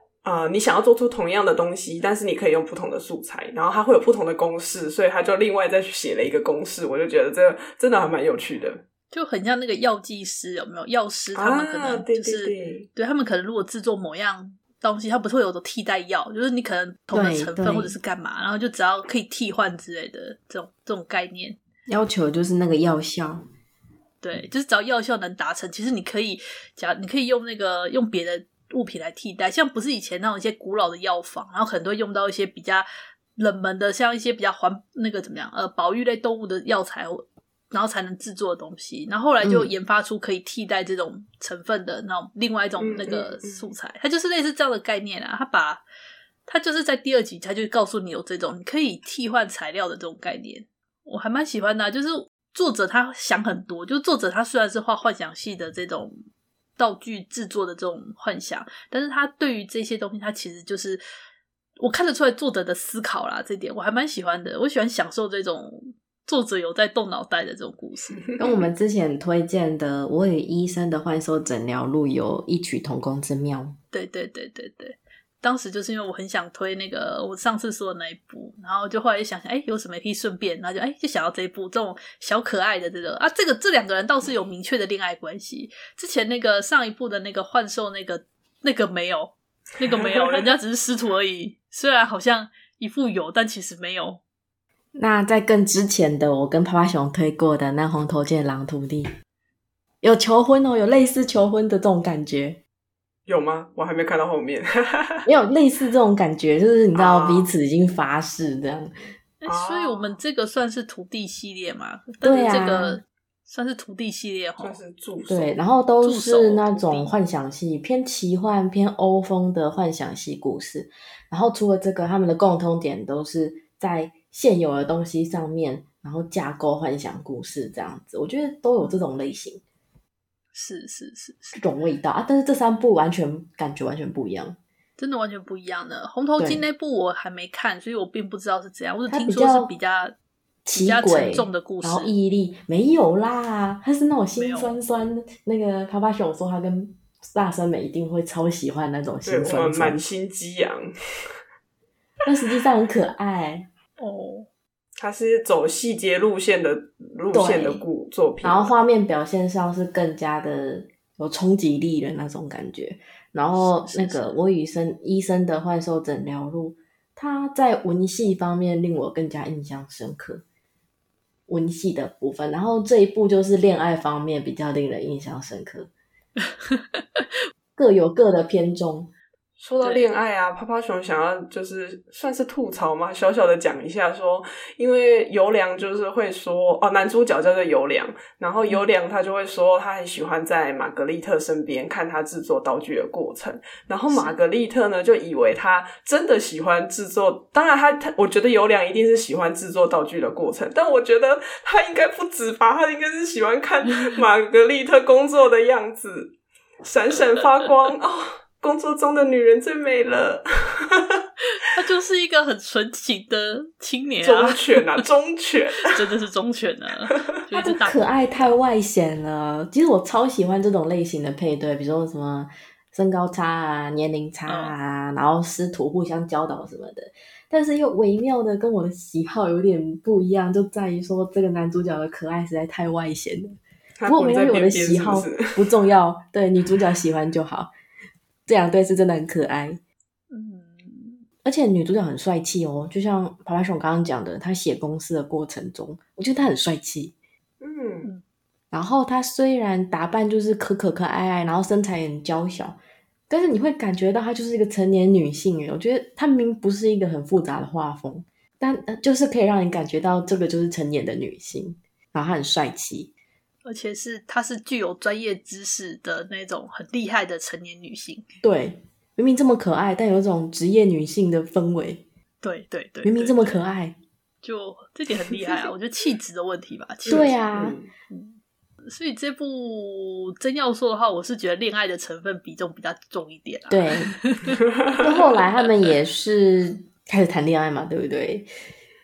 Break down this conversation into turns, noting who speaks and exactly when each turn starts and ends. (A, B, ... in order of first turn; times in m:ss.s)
0:00.2-0:08.8 A
0:09.1-0:21.6 B
0:11.3-0:12.9 A
0:17.1-0:18.0 C
0:21.9-0:23.4 C
0:24.2-0:45.8 B
0:39.4-0:39.7 C
0:42.8-0:43.7 A
0:46.4-0:56.2 B
0:56.8-1:01.0 B
1:01.8-1:08.3 B
1:08.2-1:08.5 A
1:08.4-1:13.8 C
1:13.9-1:34.2 B
1:30.1-1:30.4 A
1:35.0-1:39.1 C
1:40.0-1:42.6 C
1:43.3-1:45.2 A
1:45.2-1:48.9 C
1:46.9-1:47.5 A
1:49.4-1:54.8 B
1:49.5-1:50.2 A
1:52.2-1:53.0 C
1:52.3-1:52.6 A
1:54.6-1:55.6 A
1:55.3-2:09.6 C
1:56.0-1:57.1 B
2:10.5-2:11.6 B
2:11.6-2:14.6 C
2:15.0-2:20.1 B
2:16.4-2:16.6 C
2:19.1-2:19.7 C
2:20.6-2:30.0 C
2:20.7-2:22.1 B
2:24.3-2:24.8 B
2:29.2-2:30.9 A
2:32.2-2:33.6 C
2:34.0-2:34.5 B
2:35.0-2:38.7 A
2:37.3-2:37.8 C
2:38.4-2:50.4 C
2:43.5-2:44.4 B
2:51.5-2:55.9 C
2:56.6-2:57.2 B
2:57.8-2:59.1 C
2:59.6-3:31.2 A
3:14.1-3:14.4 B
3:31.6-3:34.7 B
3:34.2-3:35.9 A
3:35.8-3:38.6 B
3:37.5-3:57.7 C
3:44.4-3:44.7 B
3:54.0-3:55.7 A
3:58.5-3:59.8 C
4:00.3-4:01.2 B
4:01.4-4:07.1 C
4:07.6-4:08.1 A
4:08.7-4:12.8 C
4:13.3-4:23.1 C
4:23.6-4:28.2 B
4:28.4-4:32.0 C
4:32.4-4:33.6 B
4:33.0-4:34.0 C
4:34.4-4:37.4 B
4:37.0-4:37.9 A
4:37.1-4:37.8 C
4:38.1-4:44.5 B
4:43.7-4:44.1 C
4:45.0-4:48.5 C